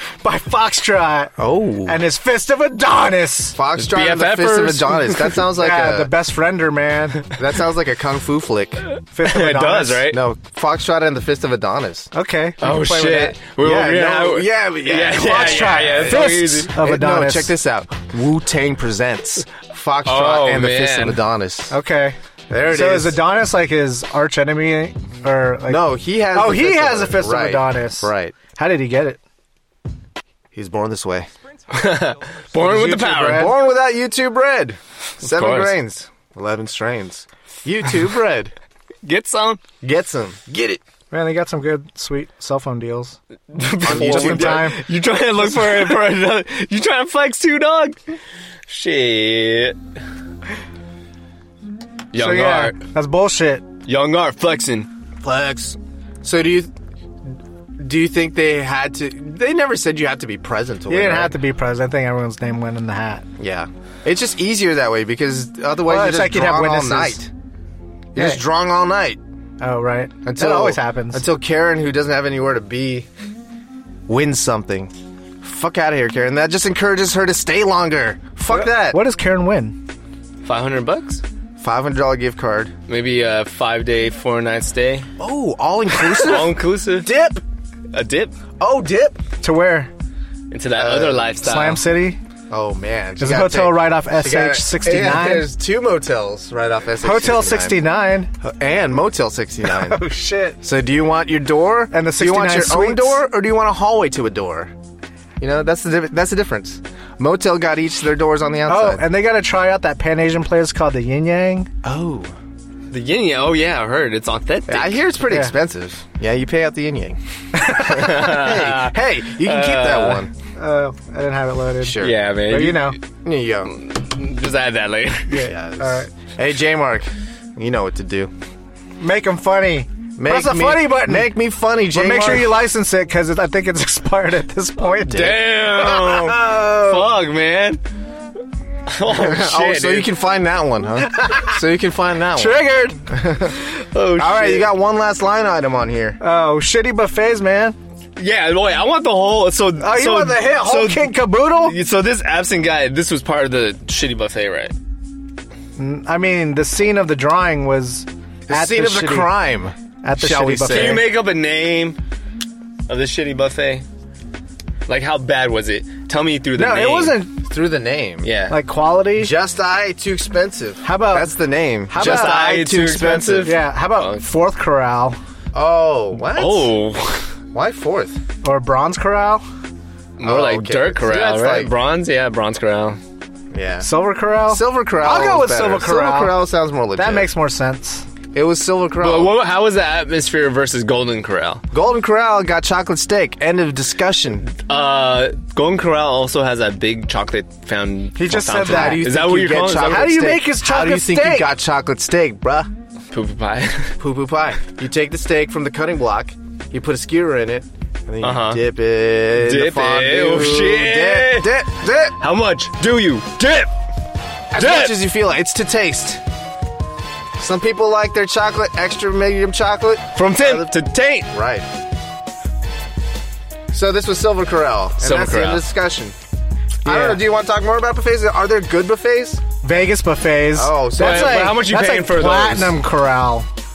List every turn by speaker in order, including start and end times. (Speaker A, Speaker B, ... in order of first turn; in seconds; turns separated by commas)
Speaker A: 0.2-1.3, Speaker B: 1.4-2.0, Speaker A: 1.9-3.6, Speaker B: 3.6-6.1, Speaker C: 3.8-5.4, Speaker A: 5.6-7.2, Speaker B: 7.3-8.9, Speaker A: 9.1-10.1, Speaker C: 9.2-10.2, Speaker B: 10.1-12.1, Speaker A: 12.1-13.5, Speaker C: 12.6-16.7, Speaker B: 13.6-21.8, Speaker A: 15.2-17.5, Speaker C: 20.1-21.2, Speaker A: 21.7-29.2, Speaker B: 22.5-23.2, Speaker B: 25.7-28.4, Speaker B: 30.5-31.3, Speaker C: 31.7-33.5, Speaker A: 32.5-33.5, Speaker B: 33.0-38.5, Speaker C: 35.2-35.8, Speaker C: 39.0-39.6, Speaker B: 39.8-40.8, Speaker A: 41.1-43.2, Speaker C: 43.5-48.0, Speaker B: 43.8-44.7, Speaker A: 43.9-44.8, Speaker C: 48.7-49.8, Speaker C: 52.1-52.8, Speaker A: 52.1-53.6, Speaker C: 53.9-54.9, Speaker B: 55.2-56.7, Speaker B: 57.8-61.4, Speaker A: 60.9-63.3, Speaker B: 63.4-67.3, Speaker A: 65.9-67.2, Speaker B: 68.2-69.2, Speaker A: 68.2-68.4, Speaker A: 69.6-71.2, Speaker B: 70.2-73.1, Speaker B: 74.1-79.0, Speaker A: 78.5-79.8, Speaker C: 80.5-81.2, Speaker B: 81.6-82.7, Speaker C: 82.9-85.1, Speaker B: 85.2-87.4, Speaker C: 86.1-87.1, Speaker C: 87.9-88.3, Speaker B: 88.6-89.2, Speaker A: 89.4-89.9, Speaker C: 90.5-91.8, Speaker B: 90.8-91.3, Speaker A: 91.4-92.2, Speaker B: 92.5-97.8, Speaker A: 93.2-95.5, Speaker A: 97.0-98.3, Speaker B: 98.4-100.0, Speaker A: 99.7-100.6, Speaker B: 100.6-104.7, Speaker A: 101.9-103.2, Speaker B: 105.4-109.0, Speaker A: 108.7-111.7, Speaker B: 111.8-112.3, Speaker C: 112.9-115.0, Speaker B: 114.7-120.3, Speaker C: 117.8-120.3, Speaker A: 120.6-123.0, Speaker B: 121.8-122.2, Speaker C: 122.0-123.0, Speaker B: 123.2-123.7, Speaker C: 123.7-125.4, Speaker A: 125.3-126.1, Speaker B: 125.3-128.3, Speaker A: 129.0-131.3, Speaker B: 130.2-132.6, Speaker A: 131.9-135.4, Speaker B: 135.1-136.7, Speaker C: 135.1-137.8, Speaker A: 136.4-136.8, Speaker C: 138.9-140.1, Speaker B: 139.1-143.6, Speaker A: 141.1-141.6, Speaker A: 142.4-143.0, Speaker C: 143.8-144.7, Speaker B: 144.2-146.2, Speaker A: 146.2-147.8, Speaker C: 148.2-154.7, Speaker A: 149.8-151.8, Speaker A: 155.8-159.3, Speaker B: 158.5-161.1, Speaker A: 160.0-161.1, Speaker C: 160.7-162.0, Speaker C: 162.9-163.8, Speaker C: 164.9-167.2, Speaker A: 166.6-167.3, Speaker B: 167.4-168.3, Speaker C: 168.2-168.6, Speaker A: 168.5-169.3, Speaker B: 169.2-173.6, Speaker A: 170.8-171.3, Speaker A: 171.9-172.4, Speaker C: 172.0-174.2, Speaker A: 173.4-175.2, Speaker B: 175.5-176.7, Speaker C: 176.2-177.3, Speaker B: 177.5-178.2, Speaker A: 178.4-179.4, Speaker C: 180.2-183.0, Speaker B: 180.2-181.7, Speaker B: 183.5-183.9, Speaker A: 183.8-186.4, Speaker B: 184.5-187.3, Speaker A: 187.0-188.1, Speaker B: 188.3-189.3, Speaker C: 189.0-191.6, Speaker B: 191.7-194.5, Speaker C: 194.6-200.2, Speaker A: 198.2-199.0, Speaker B: 198.4-202.7, Speaker A: 199.8-201.5, Speaker C: 203.1-204.0, Speaker B: 204.0-212.2, Speaker C: 208.2-208.6, Speaker C: 209.3-211.6, Speaker C: 212.2-213.7, Speaker B: 214.5-216.2, Speaker C: 214.6-215.0, Speaker B: 217.4-220.8, Speaker C: 220.2-221.3, Speaker B: 221.3-221.7, Speaker B: 223.7-226.2, Speaker C: 225.0-225.6, Speaker A: 226.8-227.2, Speaker B: 226.8-229.4, Speaker A: 229.6-233.5, Speaker B: 230.5-231.6, Speaker C: 231.0-232.8